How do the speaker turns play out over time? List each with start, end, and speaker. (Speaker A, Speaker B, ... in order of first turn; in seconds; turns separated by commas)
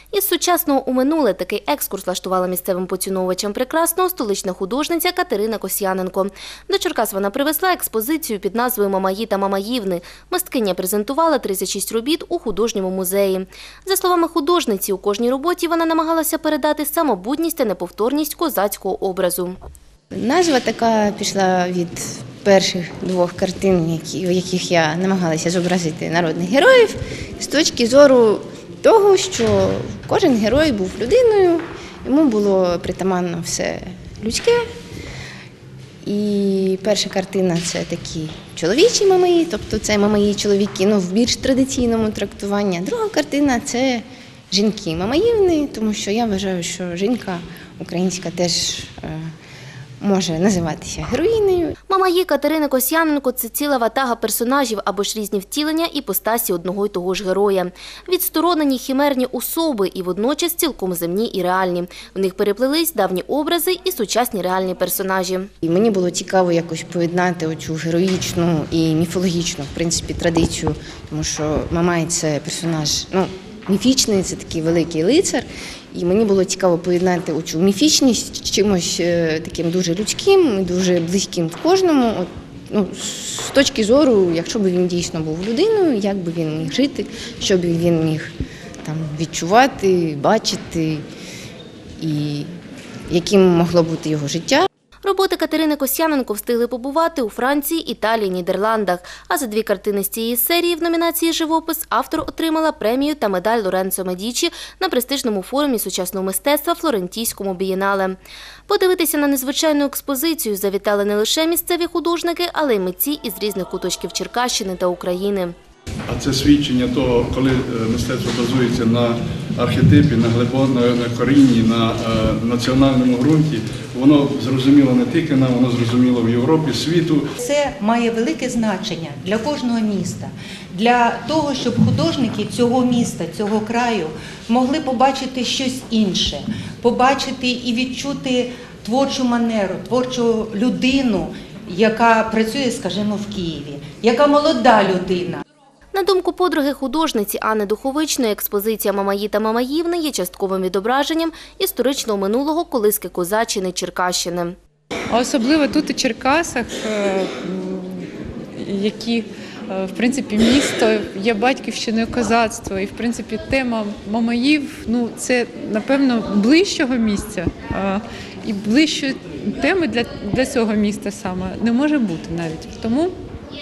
Speaker A: 0.1-19.6, Speaker B: 20.1-34.7, Speaker B: 36.0-49.3, Speaker B: 50.0-51.8, Speaker A: 51.9-65.5, Speaker B: 65.6-88.3, Speaker B: 88.8-91.0, Speaker B: 92.0-92.5, Speaker B: 93.1-94.7, Speaker A: 95.0-108.2, Speaker A: 108.7-115.5, Speaker C: 116.1-127.2, Speaker D: 127.4-145.4, Speaker A: 145.9-154.6, Speaker E: 155.1-173.2